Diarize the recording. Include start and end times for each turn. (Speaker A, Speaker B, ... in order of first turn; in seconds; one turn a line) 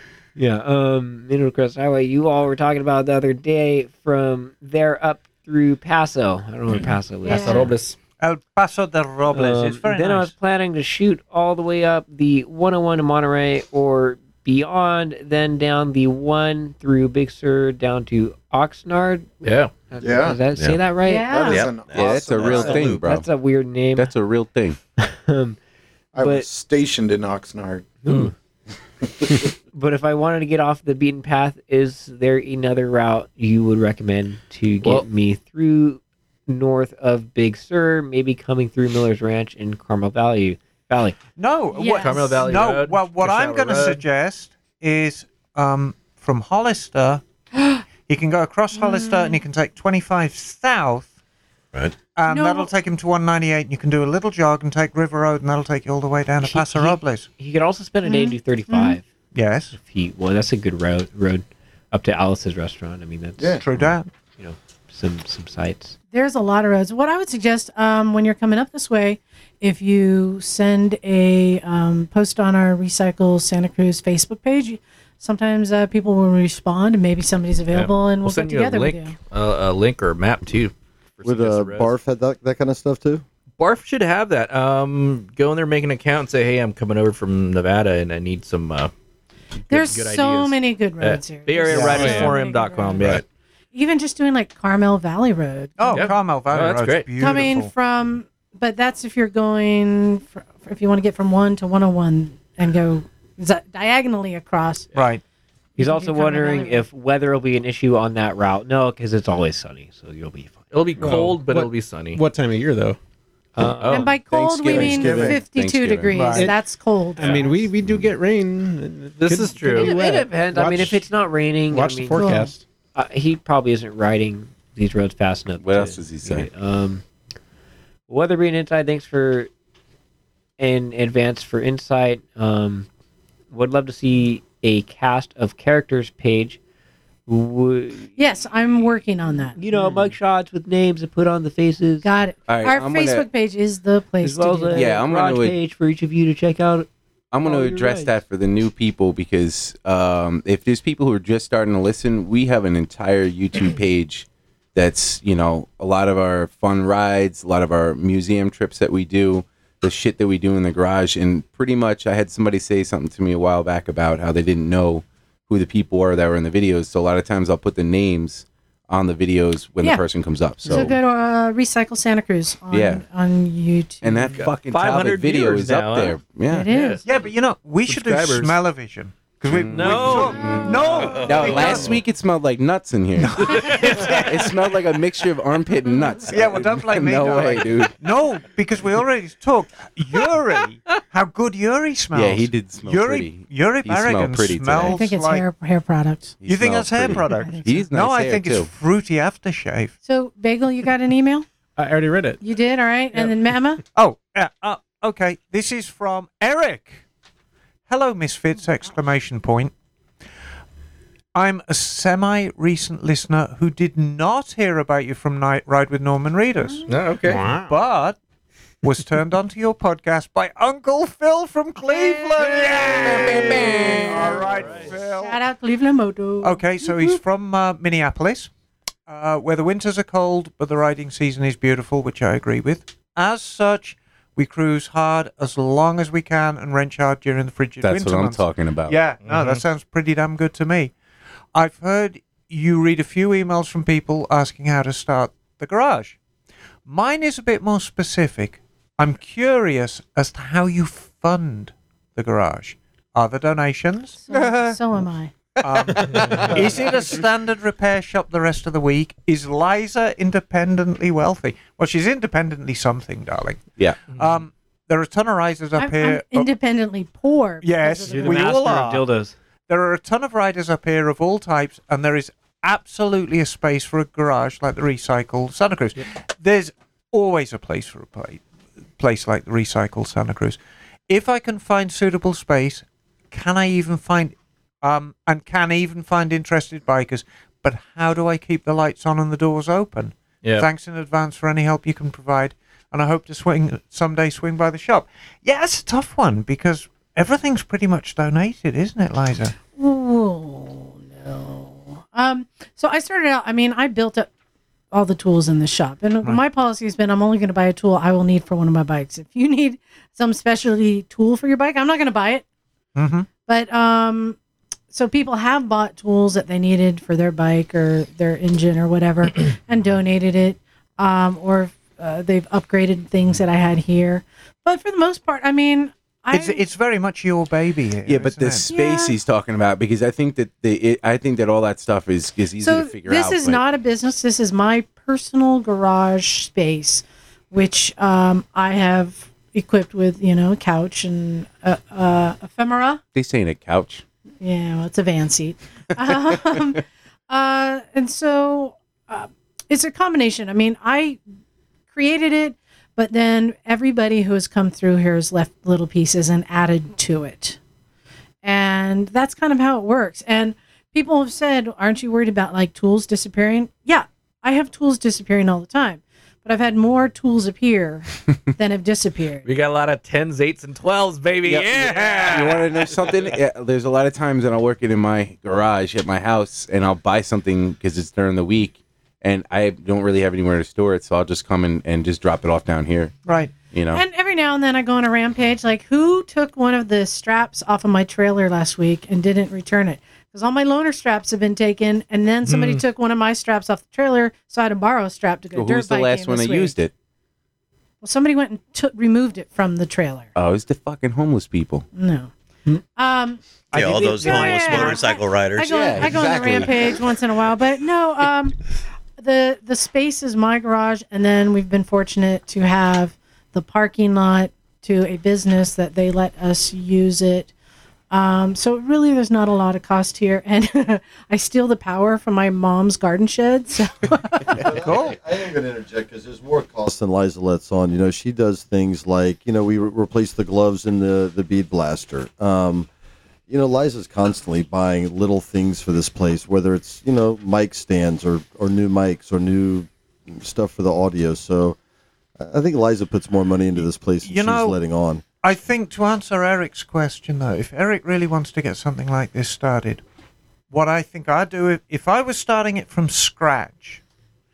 Speaker A: 0.3-7.8
Speaker B: 6.7-8.0
Speaker C: 7.2-7.8
Speaker D: 8.2-10.3
Speaker A: 9.3-21.6
Speaker B: 19.4-19.7
Speaker E: 20.0-20.4
Speaker F: 20.5-20.8
Speaker C: 21.0-21.7
Speaker E: 21.3-22.8
Speaker F: 21.4-23.1
Speaker G: 21.9-23.3
Speaker A: 22.4-24.1
Speaker G: 23.9-24.8
Speaker A: 25.0-25.6
Speaker E: 26.1-27.9
Speaker A: 26.2-26.5
Speaker A: 28.1-28.3
Speaker B: 28.1-28.3
Speaker A: 29.7-41.2
Speaker D: 41.4-47.2
Speaker C: 41.7-42.4
Speaker B: 42.0-44.0
Speaker D: 48.0-51.1
Speaker C: 48.8-49.4
Speaker F: 51.7-52.0
Speaker D: 52.1-57.3
Speaker C: 52.2-52.7
Speaker A: 56.4-59.1
Speaker C: 58.0-59.0
Speaker D: 59.3-59.7
Speaker A: 59.7-66.0
Speaker E: 63.4-63.6
Speaker D: 63.6-64.1
Speaker C: 66.1-79.2
Speaker B: 77.7-81.9
Speaker H: 81.2-83.2
Speaker B: 83.6-88.9
Speaker B: 89.7-93.2
Speaker C: 89.7-96.1
Speaker I: 91.7-92.4
Speaker D: 95.8-97.7
Speaker B: 95.9-97.1
Speaker C: 97.2-104.9
Speaker D: 104.9-105.2
Speaker C: 105.8-106.8
Speaker A: 105.8-111.0
Speaker B: 110.7-112.2
Speaker I: 111.0-113.0
Speaker A: 113.6-114.1
Speaker B: 113.6-114.1
Speaker C: 113.9-117.7
Speaker G: 114.3-116.3
Speaker H: 114.7-115.4
Speaker D: 116.1-116.5
Speaker I: 116.3-116.6
Speaker I: 117.2-121.0
Speaker B: 117.2-117.5
Speaker B: 119.2-120.0
Speaker A: 119.7-122.3
Speaker I: 121.7-122.6
Speaker C: 122.1-122.5
Speaker A: 122.9-127.0
Speaker G: 125.6-126.5
Speaker A: 128.1-129.5
Speaker A: 130.6-132.9
Speaker A: 133.5-136.6
Speaker A: 137.3-138.2
Speaker C: 138.2-139.6
Speaker A: 139.6-142.1
Speaker C: 142.0-145.0
Speaker G: 142.5-143.3
Speaker A: 144.2-146.9
Speaker G: 144.7-145.5
Speaker G: 147.3-170.9
Speaker A: 147.4-148.2
Speaker C: 170.6-174.4
Speaker G: 172.7-173.0
Speaker G: 174.0-176.7
Speaker B: 174.4-177.1
Speaker C: 176.4-177.1
Speaker D: 177.0-182.0
Speaker B: 177.8-178.6
Speaker G: 179.5-188.0
Speaker B: 179.7-180.4
Speaker D: 183.2-184.8
Speaker B: 183.5-184.2
Speaker D: 186.3-195.4
Speaker G: 192.1-195.0
Speaker C: 194.9-196.3
Speaker G: 196.4-198.7
Speaker D: 196.4-199.9
Speaker C: 197.3-197.9
Speaker C: 200.0-201.5
Speaker I: 201.8-202.4
Speaker C: 202.4-203.8
Speaker D: 203.9-207.0
Speaker D: 207.9-209.7
Speaker D: 211.3-216.9
Speaker B: 216.9-217.5
Speaker I: 217.2-217.8
Speaker D: 217.7-218.2
Speaker D: 218.8-225.4
Speaker G: 222.9-224.3
Speaker C: 223.4-227.2
Speaker B: 223.7-224.9
Speaker D: 226.4-228.5
Speaker D: 229.1-240.9
Speaker G: 237.8-239.0
Speaker B: 239.2-239.6
Speaker D: 241.5-246.2
Speaker D: 246.8-254.8
Speaker C: 254.2-255.3
Speaker G: 255.6-256.2
Speaker D: 255.6-266.5
Speaker G: 263.8-264.1
Speaker C: 265.8-268.6
Speaker D: 267.6-269.1
Speaker A: 268.0-269.3
Speaker D: 269.7-278.4
Speaker D: 279.0-299.6
Speaker C: 299.7-304.3
Speaker C: 304.9-312.4
Speaker D: 312.9-313.3
Speaker C: 313.4-314.4
Speaker C: 314.9-326.6
Speaker D: 326.3-328.7
Speaker G: 328.1-333.6
Speaker C: 328.7-329.2
Speaker C: 332.6-343.0
Speaker G: 343.1-344.0
Speaker C: 344.4-351.2
Speaker C: 351.9-357.6
Speaker C: 358.4-369.4
Speaker B: 369.4-373.1
Speaker G: 371.4-383.1
Speaker D: 383.2-383.5
Speaker G: 383.7-384.0
Speaker C: 383.9-396.7
Speaker B: 392.4-392.8
Speaker G: 395.5-396.9
Speaker C: 398.0-400.3
Speaker G: 400.3-401.9
Speaker C: 401.9-402.3
Speaker C: 402.9-403.4
Speaker D: 403.7-405.1
Speaker F: 403.7-406.4
Speaker C: 403.9-408.6
Speaker G: 405.6-407.0
Speaker C: 409.2-417.5
Speaker C: 418.1-424.6
Speaker H: 424.5-432.9
Speaker D: 424.6-425.2
Speaker H: 433.5-441.8
Speaker H: 442.4-445.2
Speaker D: 443.8-444.8
Speaker D: 445.4-450.0
Speaker D: 450.7-454.0